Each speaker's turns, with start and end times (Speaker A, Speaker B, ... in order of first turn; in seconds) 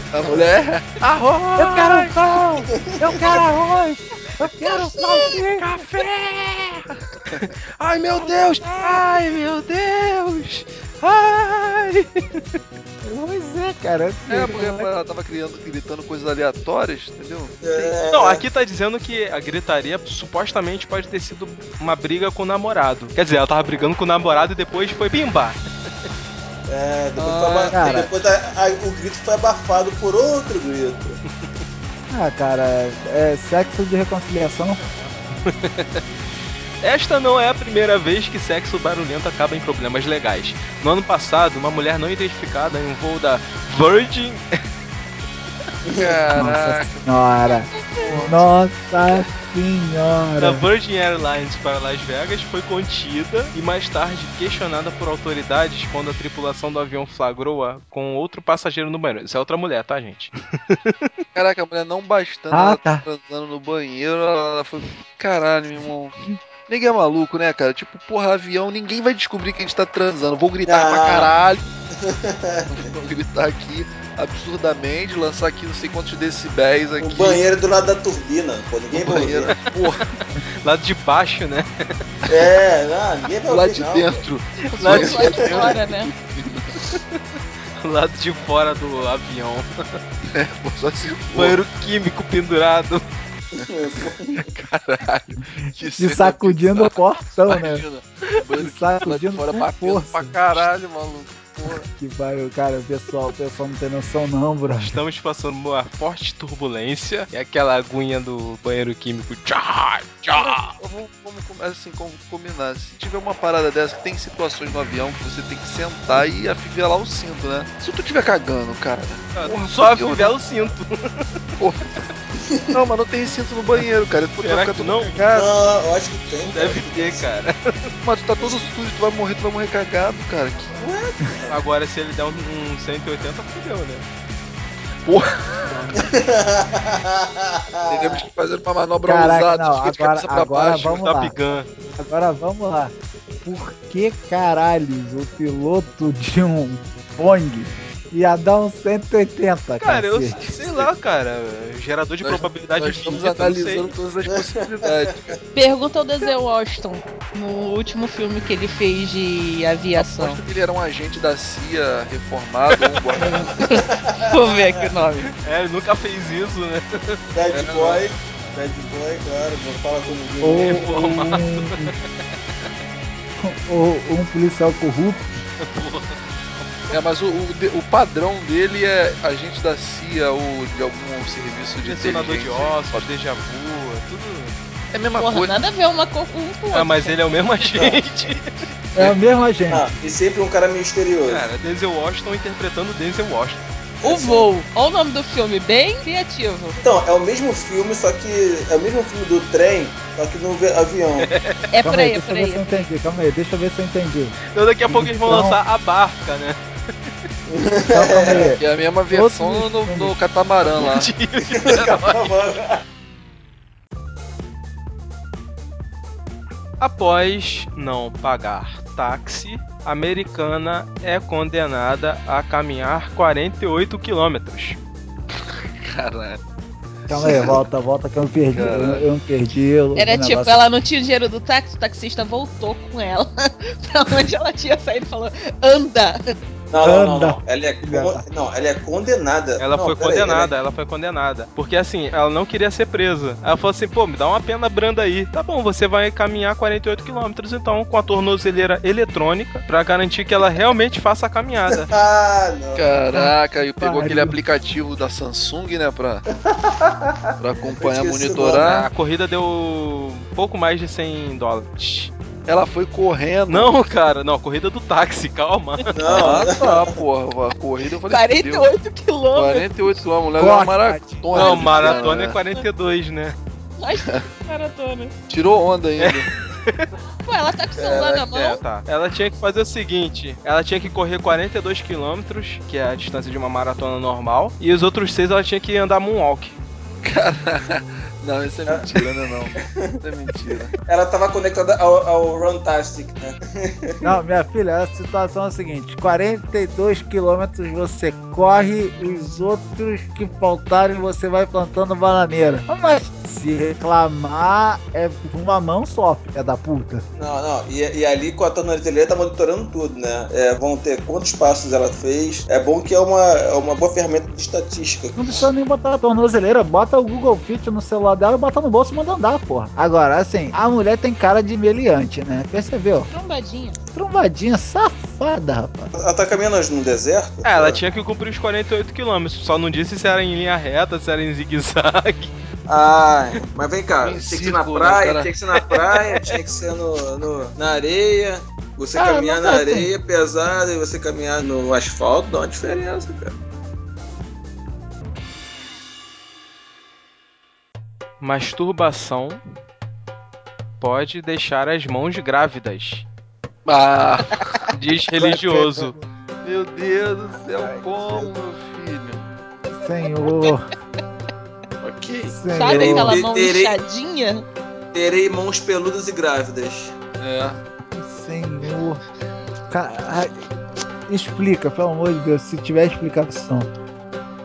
Speaker A: 0.1-2.6, 3.2-3.5, 5.0-8.9, 14.3-17.9, 27.2-27.8, 46.0-47.0, 48.1-48.4, 61.4-71.7, 72.7-77.4, 78.9-80.1, 83.5-86.7, 90.3-91.6, 94.5-101.9, 110.3-120.4, 121.6-122.0, 122.7-125.5, 128.0-130.8, 135.1-135.9, 137.9-141.0, 152.2-155.4, 160.0-163.5, 176.9-183.1, 184.9-185.6, 208.2-211.1, 225.8-226.4, 227.1-227.6, 228.5-229.1, 252.8-256.2, 257.4-258.9, 262.5-263.8, 266.0-268.7, 269.3-272.4, 275.3-276.3, 287.0-290.8, 334.0-335.3, 353.7-354.7, 356.4-359.3, 361.8-362.4, 367.2-367.6
Speaker B: 0.2-0.5, 2.7-3.1, 17.6-18.4, 26.7-31.2, 45.9-46.3, 70.7-71.3, 71.9-72.8, 77.0-79.6, 82.3-84.2, 84.9-85.4, 93.5-94.5, 122.3-122.8, 125.3-127.3, 128.4-128.7, 130.8-131.6, 136.0-138.2, 154.3-155.3, 163.2-164.7, 167.3-170.9, 187.7-188.0, 189.7-191.5, 194.0-194.5, 196.8-201.3, 207.5-208.5, 211.5-212.8, 236.7-240.5, 251.7-252.9, 256.5-258.7, 265.9-267.0, 277.8-278.2, 288.7-290.0, 290.8-294.0, 307.2-315.4, 325.9-327.8, 332.7-343.4, 357.8-358.2, 362.7-363.8, 364.9-367.0
Speaker C: 1.6-5.8, 8.6-9.0, 13.0-14.9, 27.7-28.1, 32.1-34.8, 46.4-50.7, 62.5-63.0, 95.7-97.8, 98.6-100.6, 101.7-105.0, 139.0-141.3, 142.0-150.8, 170.4-171.9, 173.4-175.4, 188.9-189.9, 201.8-204.4, 204.9-205.6, 207.9-210.2, 227.1-230.7, 236.8-238.2, 253.1-254.4, 270.4-271.5, 294.0-307.0, 315.2-323.1, 323.9-325.9, 339.0-339.9, 355.2-356.1, 359.8-360.7, 362.3-363.2, 367.9-369.0, 369.7-370.4, 371.1-373.7
Speaker D: 4.8-5.3, 84.9-86.1, 155.5-160.4, 163.6-165.3, 185.2-187.2, 194.1-196.8, 201.7-202.9, 230.0-236.2, 268.1-270.0, 271.3-271.9, 273.8-275.1, 277.3-278.6, 323.1-323.8, 360.2-360.5, 362.5-364.5
Speaker E: 7.4-12.4, 18.1-25.6, 35.5-36.0, 36.8-44.4, 50.4-60.9, 79.8-81.7, 84.8-85.5, 87.8-89.7, 91.3-93.0, 104.7-110.7, 119.3-121.3, 124.4-125.2, 126.5-127.9, 131.5-134.1, 140.9-141.7, 149.8-153.9, 165.4-168.0, 170.6-172.0, 175.6-177.0, 181.8-184.6, 186.7-188.7, 191.3-193.6, 201.3-201.6, 204.5-207.1, 210.6-212.3, 216.8-224.8, 239.6-251.9, 258.6-262.1, 263.5-266.3, 271.3-273.4, 276.0-276.9, 278.3-286.6, 327.4-332.3, 348.2-349.4, 350.8-353.1, 354.7-355.9